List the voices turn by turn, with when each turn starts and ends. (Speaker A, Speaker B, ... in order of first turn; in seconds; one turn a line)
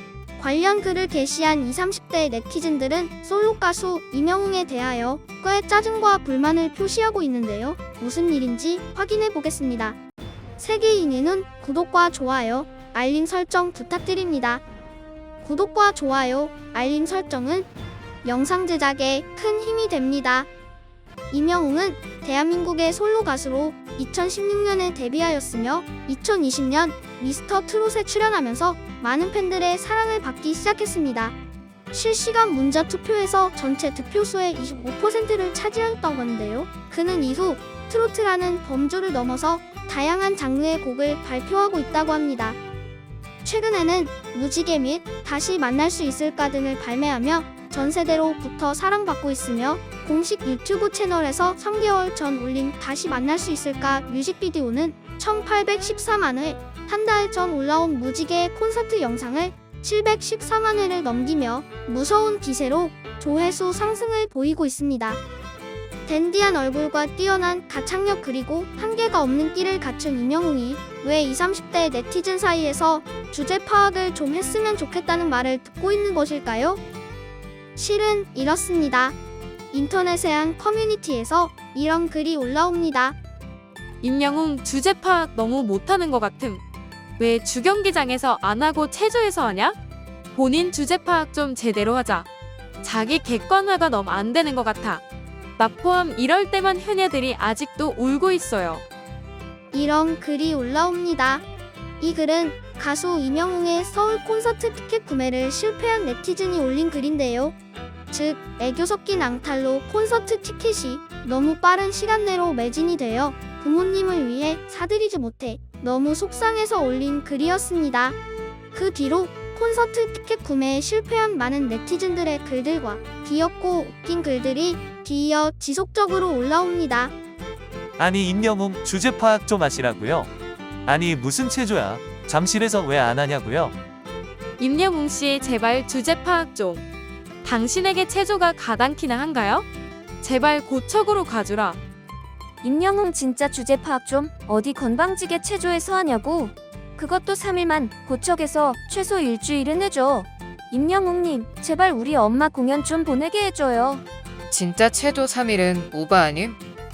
Speaker A: 0.4-10.0
Speaker A: 10.6-14.6
Speaker A: 15.4-17.7
Speaker A: 18.2-20.5
Speaker A: 21.3-31.4
Speaker A: 31.9-42.6
Speaker A: 43.4-65.2
Speaker A: 66.1-76.8
Speaker A: 77.8-79.2
Speaker A: 79.7-83.2
Speaker B: 84.0-86.6
Speaker B: 87.2-89.8
Speaker B: 90.3-92.3
Speaker B: 92.8-95.0
Speaker B: 95.6-98.8
Speaker A: 99.7-101.4
Speaker A: 102.0-107.5
Speaker A: 108.1-118.2
Speaker A: 118.7-127.1
Speaker C: 128.0-130.3
Speaker C: 130.9-133.8
Speaker B: 134.6-136.8
Speaker B: 137.4-139.7
Speaker B: 140.2-141.8
Speaker D: 142.6-154.0
Speaker E: 154.5-156.6